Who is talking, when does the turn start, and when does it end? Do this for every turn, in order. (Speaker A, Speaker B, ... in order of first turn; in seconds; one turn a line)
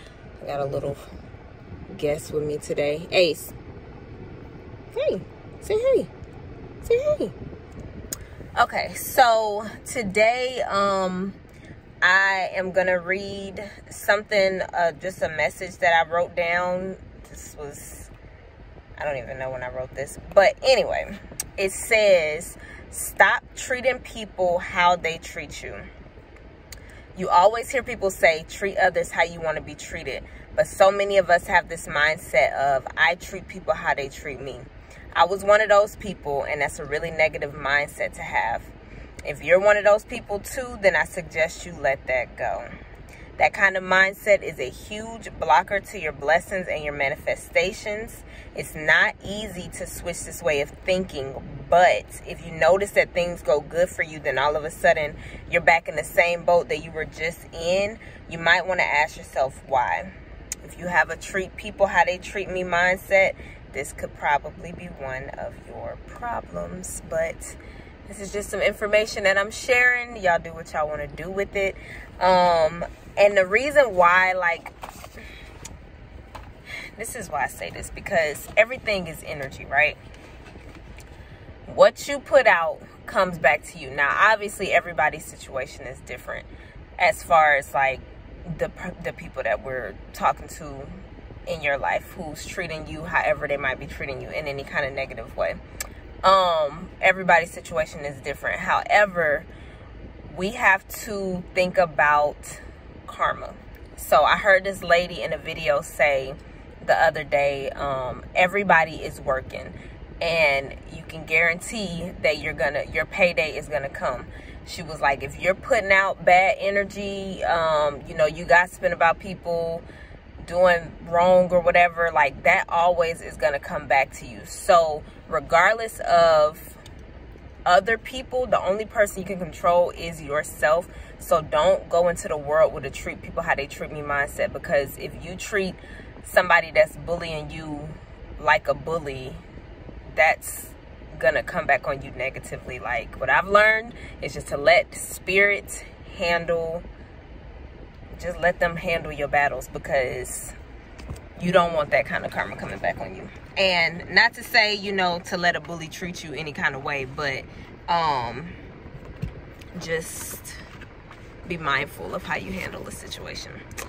Speaker A: 0.4-1.0
Speaker A: 1.9-3.5
Speaker A: 4.9-6.1
Speaker A: 6.8-7.3
Speaker A: 8.6-11.4
Speaker A: 12.0-18.1
Speaker A: 19.0-25.9
Speaker A: 27.1-38.7
Speaker A: 39.2-42.7
Speaker A: 43.4-60.1
Speaker A: 60.6-74.7
Speaker A: 77.0-80.0
Speaker A: 81.7-86.5
Speaker A: 87.0-95.6
Speaker A: 96.2-99.5
Speaker A: 100.2-119.8
Speaker A: 120.4-126.8
Speaker A: 127.6-139.4
Speaker A: 140.1-146.8
Speaker A: 148.1-150.5
Speaker A: 151.4-158.5
Speaker A: 159.8-160.6
Speaker A: 161.4-163.6